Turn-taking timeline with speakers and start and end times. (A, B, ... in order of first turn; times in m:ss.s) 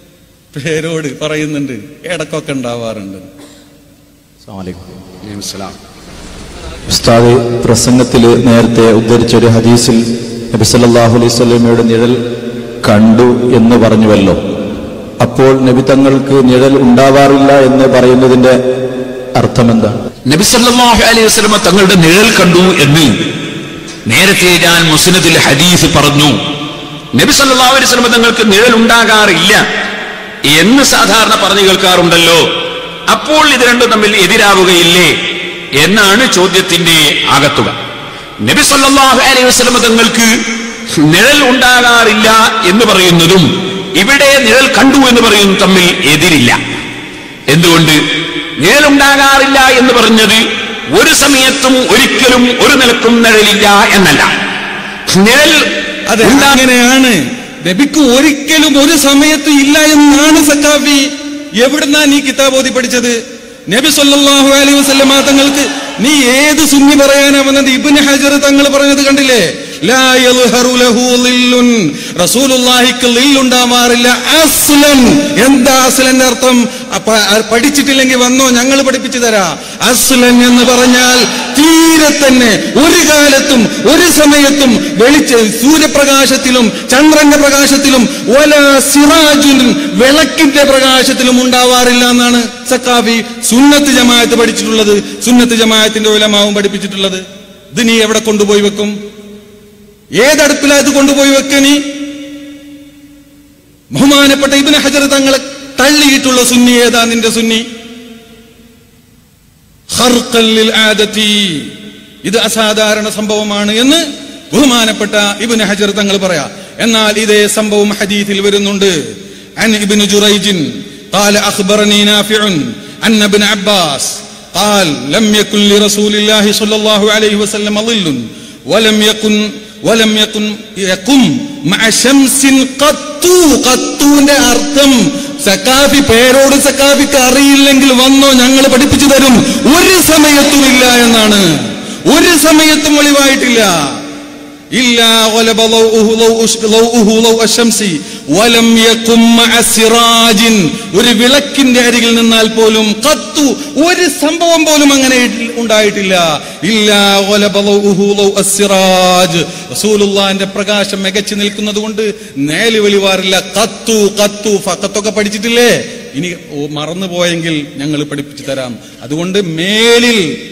0:00.5-0:03.3 A
0:04.5-0:04.8 B
0:05.2-0:05.7 C
0:06.9-0:12.2 B
0:12.8-0:14.4 B
0:15.2-0:18.6 B
0:19.4-0:20.0 B
0:20.3-0:23.1 C
0:24.1-0:26.4 C
0:27.1-0:29.6 C
0:30.5-0:32.4 C
0:33.1-0:35.1 C
0:35.8-0:37.7 C
0:38.4-0:40.3 C
0:41.0-0:46.6 C
0:47.5-0:48.0 C
0:48.6-0:50.4 C
0:51.0-0:54.3 C
0:55.1-0:55.6 C
0:56.1-1:01.1 A
0:56.2-0:56.6 C
1:01.6-1:03.1 A
1:03.7-1:37.2 A
1:37.7-1:38.9 A
1:40.2-1:41.8 A
1:43.9-1:47.6 A
1:49.9-1:51.7 A
1:52.2-1:58.9 A
1:59.6-2:21.4 A
2:22.1-2:23.7 A
2:24.7-2:50.2 A